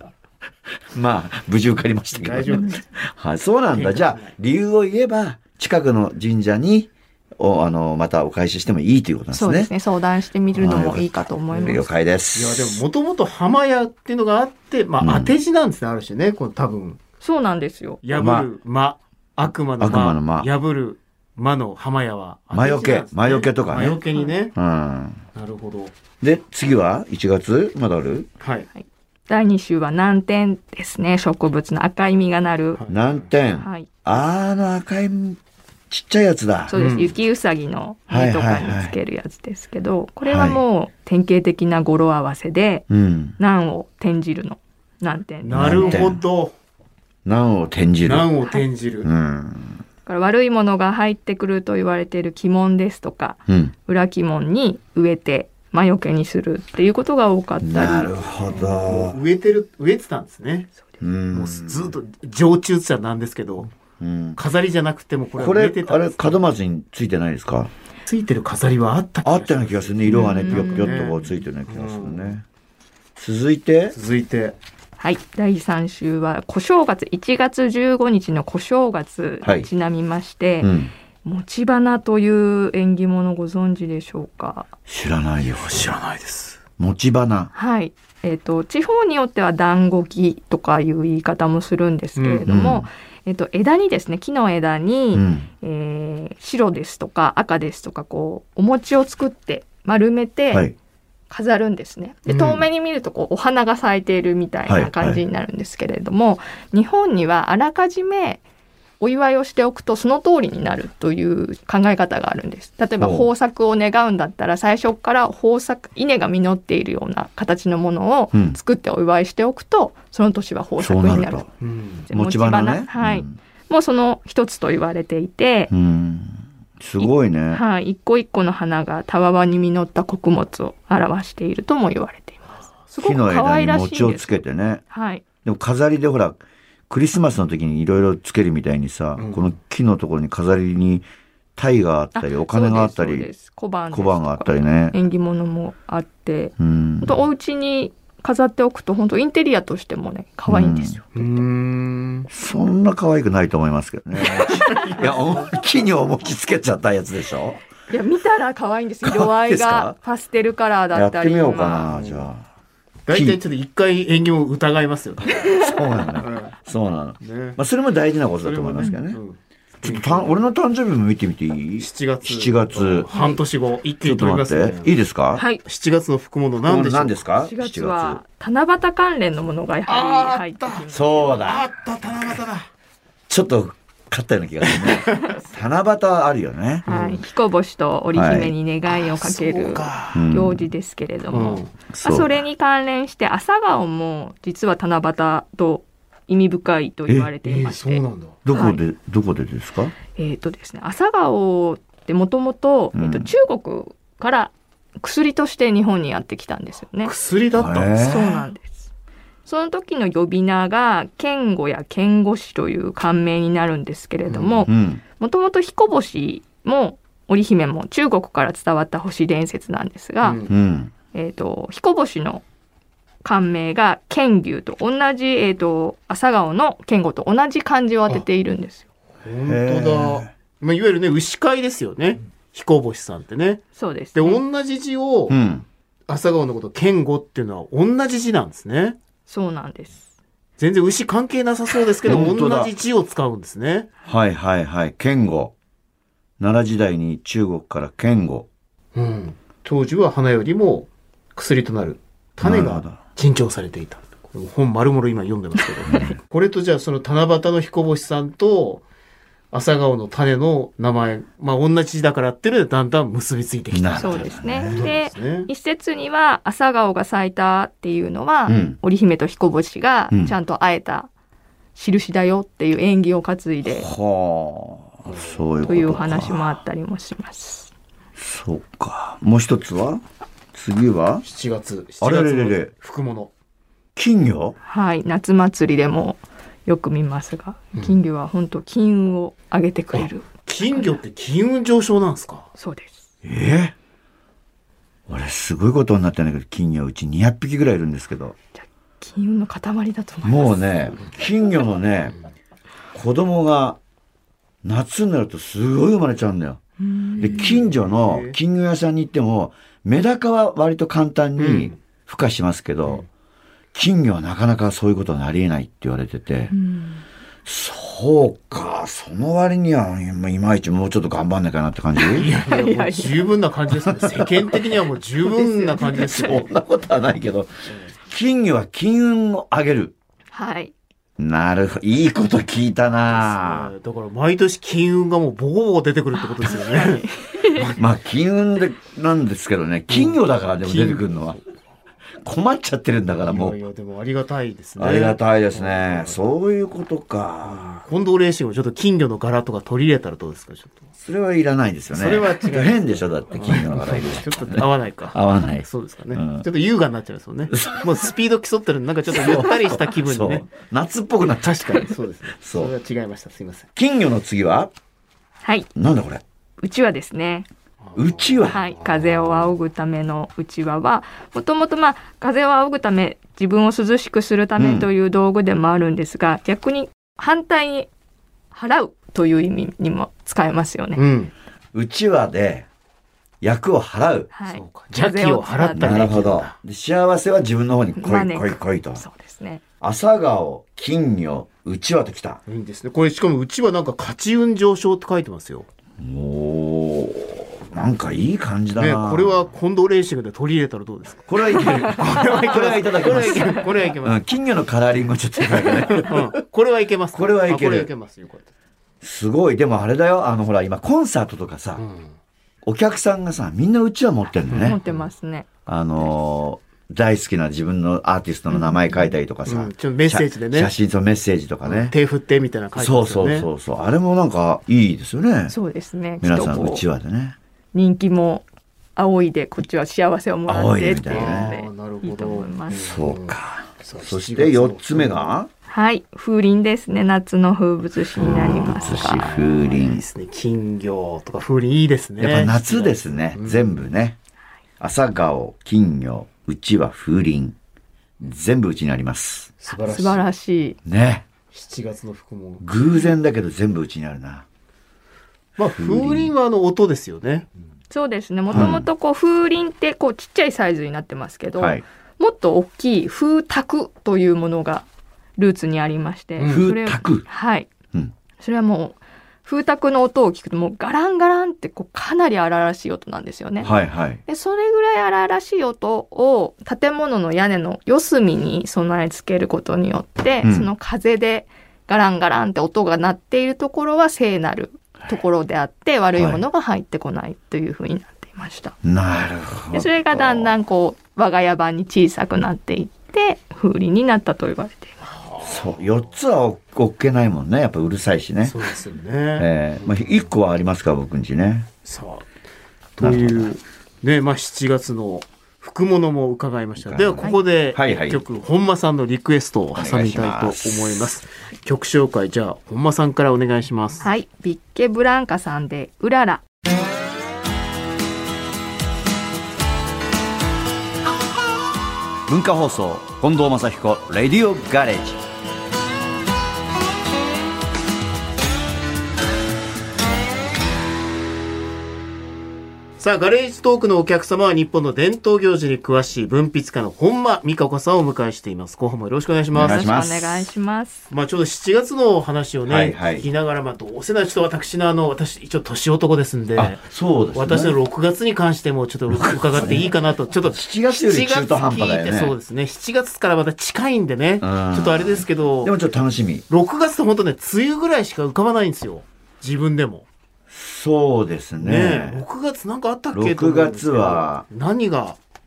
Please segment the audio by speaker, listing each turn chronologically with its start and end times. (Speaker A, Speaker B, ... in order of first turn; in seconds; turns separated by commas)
Speaker A: 0.9-9.7, Speaker B: 2.1-2.8, Speaker B: 3.7-4.3, Speaker C: 9.3-11.9, Speaker A: 10.5-12.8, Speaker B: 11.5-11.8, Speaker B: 12.3-17.0, Speaker A: 15.0-15.3, Speaker C: 17.2-18.0, Speaker B: 18.0-24.5, Speaker A: 18.1-18.5, Speaker A: 19.8-20.5, Speaker A: 22.5-24.0, Speaker A: 24.5-25.2, Speaker B: 25.3-25.9, Speaker A: 26.2-28.3, Speaker B: 28.4-28.7, Speaker C: 28.8-32.8, Speaker B: 32.7-33.3, Speaker A: 32.9-35.4, Speaker C: 33.6-33.9, Speaker A: 35.9-36.7, Speaker C: 36.7-42.9, Speaker B: 36.7-37.1, Speaker A: 38.1-39.0, Speaker A: 40.2-40.6, Speaker A: 42.9-43.4, Speaker C: 43.4-46.1, Speaker B: 45.4-46.5, Speaker A: 45.5-46.2, Speaker A: 47.2-48.3, Speaker B: 48.0-49.1, Speaker A: 49.0-49.8, Speaker C: 50.0-58.1, Speaker A: 53.5-53.7, Speaker A: 57.6-59.2, Speaker B: 58.5-60.7, Speaker A: 61.0-61.9, Speaker B: 61.3-63.7, Speaker A: 64.0-64.4, Speaker B: 64.3-66.4, Speaker A: 65.4-67.7, Speaker B: 68.0-72.4, Speaker A: 69.2-72.4, Speaker C: 70.1-71.1, Speaker A: 73.2-74.0, Speaker B: 73.9-74.6, Speaker C: 75.0-84.7, Speaker A: 80.6-80.9, Speaker A: 84.9-85.9, Speaker B: 85.5-86.6, Speaker A: 86.8-87.5, Speaker C: 87.5-100.7, Speaker B: 92.2-92.5, Speaker A: 92.5-92.9, Speaker A: 95.1-95.5, Speaker C: 101.3-108.4, Speaker B: 102.3-102.6, Speaker A: 104.7-105.2, Speaker C: 109.0-121.4, Speaker A: 113.0-113.3, Speaker A: 118.3-118.6, Speaker A: 120.8-121.5, Speaker B: 121.6-122.1, Speaker A: 122.1-123.3, Speaker C: 122.1-125.7, Speaker A: 125.7-127.6, Speaker C: 127.0-135.2, Speaker A: 133.0-134.8, Speaker A: 135.4-141.0, Speaker B: 139.2-139.5, Speaker A: 141.6-143.3, Speaker C: 142.1-151.4, Speaker A: 143.9-144.9, Speaker A: 146.6-147.2, Speaker A: 150.5-151.0, Speaker B: 151.1-152.3, Speaker A: 152.3-157.6, Speaker B: 154.2-155.5, Speaker C: 157.9-161.9, Speaker A: 159.0-159.9, Speaker A: 160.9-162.4, Speaker B: 161.9-162.3, Speaker B: 163.1-165.4, Speaker A: 163.1-163.4, Speaker A: 165.3-169.2, Speaker C: 165.4-165.7, Speaker B: 166.2-166.5, Speaker B: 167.2-167.6, Speaker B: 168.4-170.4, Speaker A: 169.8-173.1, Speaker B: 171.8-175.0, Speaker C: 173.1-173.4, Speaker A: 174.0-175.4, Speaker C: 175.3-175.6, Speaker B: 175.6-177.2, Speaker A: 176.6-178.2, Speaker C: 177.4-181.3, Speaker B: 179.9-182.7, Speaker A: 180.9-181.7, Speaker A: 183.3-186.8, Speaker B: 184.6-185.3, Speaker C: 186.8-198.8, Speaker B: 186.9-187.2, Speaker A: 188.1-188.5, Speaker B: 188.9-190.3, Speaker A: 190.1-190.7, Speaker B: 191.3-191.7, Speaker A: 191.9-192.3, Speaker B: 197.4-198.4, Speaker A: 198.4-199.9, Speaker C: 200.1-207.1, Speaker A: 202.9-203.3, Speaker B: 207.0-208.2, Speaker A: 207.5-208.4, Speaker C: 208.0-208.9, Speaker C: 209.4-220.4, Speaker B: 214.3-214.7, Speaker A: 214.7-215.0, Speaker B: 220.2-220.5, Speaker A: 220.5-220.9, Speaker C: 221.1-222.4, Speaker C: 223.2-228.8, Speaker B: 229.2-233.6, Speaker A: 229.4-230.3, Speaker C: 233.8-234.4, Speaker B: 234.1-235.3, Speaker A: 235.3-235.7, Speaker B: 236.1-239.0, Speaker C: 239.3-240.1, Speaker B: 240.6-243.9, Speaker A: 242.0-242.7, Speaker A: 244.1-245.5, Speaker A: 246.4-248.5, Speaker B: 248.9-258.8, Speaker A: 252.4-253.0, Speaker A: 255.8-256.1, Speaker B: 259.5-265.5, Speaker A: 263.7-264.9, Speaker C: 264.0-271.1, Speaker A: 268.5-268.8, Speaker C: 271.7-273.9, Speaker A: 273.6-276.6, Speaker B: 275.1-275.7, Speaker C: 275.7-277.7, Speaker A: 278.1-280.0, Speaker A: 280.5-281.2, Speaker B: 281.2-283.3, Speaker A: 282.0-282.7, Speaker A: 283.9-284.6, Speaker C: 284.6-290.9, Speaker B: 290.4-292.5, Speaker C: 292.6-293.1, Speaker A: 293.2-293.7, Speaker A: 295.1-298.3, Speaker C: 298.6-300.6, Speaker A: 300.2-302.1, Speaker A: 302.9-303.8, Speaker A: 304.6-306.6, Speaker C: 306.8-307.6, Speaker B: 307.2-308.4, Speaker A: 307.2-313.1, Speaker B: 311.4-311.8, Speaker A: 313.7-316.5, Speaker C: 316.5-317.0, Speaker A: 317.4-322.3, Speaker B: 322.1-326.4, Speaker C: 322.4-323.2, Speaker A: 323.9-324.6, Speaker C: 325.2-326.4, Speaker A: 326.0-327.5, Speaker B: 327.7-327.9, Speaker A: 328.1-329.9, Speaker C: 330.3-330.7, Speaker A: 331.2-333.7, Speaker B: 333.0-337.8, Speaker C: 336.2-337.7, Speaker A: 337.8-341.4, Speaker B: 339.9-341.4, Speaker A: 342.2-343.6, Speaker B: 343.1-346.2, Speaker A: 344.8-347.7, Speaker B: 347.4-350.8, Speaker A: 351.0-356.4, Speaker B: 351.9-360.5, Speaker A: 357.5-357.9, Speaker A: 359.1-361.9, Speaker B: 361.3-363.7, Speaker A: 362.4-362.7, Speaker A: 363.8-364.7, Speaker C: 365.4-365.7, Speaker A: 365.8-366.2, Speaker C: 366.6-367.5, Speaker B: 367.8-369.5, Speaker A: 367.9-368.6, Speaker C: 368.5-377.9, Speaker A: 374.6-374.9, Speaker C: 378.5-381.0, Speaker B: 380.9-381.3, Speaker A: 381.7-382.7, Speaker A: 383.4-384.3, Speaker C: 384.3-386.1, Speaker B: 384.5-386.6, Speaker A: 385.7-389.0, Speaker C: 388.0-389.6, Speaker A: 389.8-392.4, Speaker B: 392.5-395.7, Speaker A: 396.0-399.5, Speaker B: 398.8-404.2, Speaker A: 401.3-406.3, Speaker B: 405.9-408.5, Speaker A: 407.1-407.9, Speaker A: 409.0-411.8, Speaker B: 411.8-412.1, Speaker A: 412.6-414.8, Speaker B: 414.5-415.1, Speaker C: 414.6-416.1, Speaker A: 415.6-421.9, Speaker C: 418.5-419.1, Speaker B: 419.4-420.7, Speaker B: 421.6-423.5, Speaker A: 422.8-425.5, Speaker C: 425.5-426.8, Speaker A: 426.2-427.4, Speaker C: 427.7-428.4, Speaker C: 428.9-432.8, Speaker A: 430.5-431.5, Speaker B: 431.1-435.3, Speaker A: 432.7-435.5, Speaker C: 435.7-439.3, Speaker B: 438.2-443.8, Speaker A: 438.2-440.0, Speaker A: 442.2-444.2, Speaker A: 444.8-447.6, Speaker A: 448.2-449.5, Speaker B: 449.6-450.2, Speaker C: 449.7-450.8, Speaker A: 450.9-451.2, Speaker B: 451.5-452.6, Speaker A: 452.6-454.4, Speaker B: 455.6-457.5, Speaker A: 455.7-456.3, Speaker C: 457.9-467.7, Speaker A: 458.5-458.9, Speaker A: 461.6-461.8, Speaker B: 466.4-466.7, Speaker A: 466.5-467.2, Speaker C: 468.4-473.7, Speaker A: 473.6-474.2, Speaker C: 474.3-488.8, Speaker A: 480.4-480.7, Speaker A: 486.1-486.4, Speaker A: 488.8-490.5, Speaker C: 489.7-495.0, Speaker B: 495.1-495.9, Speaker A: 495.4-498.6, Speaker B: 498.4-500.3, Speaker A: 499.4-501.7, Speaker B: 501.8-502.2, Speaker B: 503.0-514.1, Speaker A: 503.0-503.5, Speaker A: 506.8-508.2, Speaker A: 509.7-511.1, Speaker C: 514.0-516.4, Speaker A: 522.3-525.2, Speaker B: 533.0-539.9, Speaker A: 539.5-540.5, Speaker C: 539.6-541.1, Speaker B: 541.1-555.7, Speaker A: 542.6-543.3, Speaker A: 546.5-547.8, Speaker A: 549.1-549.9, Speaker A: 550.4-552.3, Speaker A: 554.4-556.4, Speaker B: 556.5-560.0, Speaker A: 560.5-562.2, Speaker B: 561.6-565.2, Speaker A: 563.1-564.4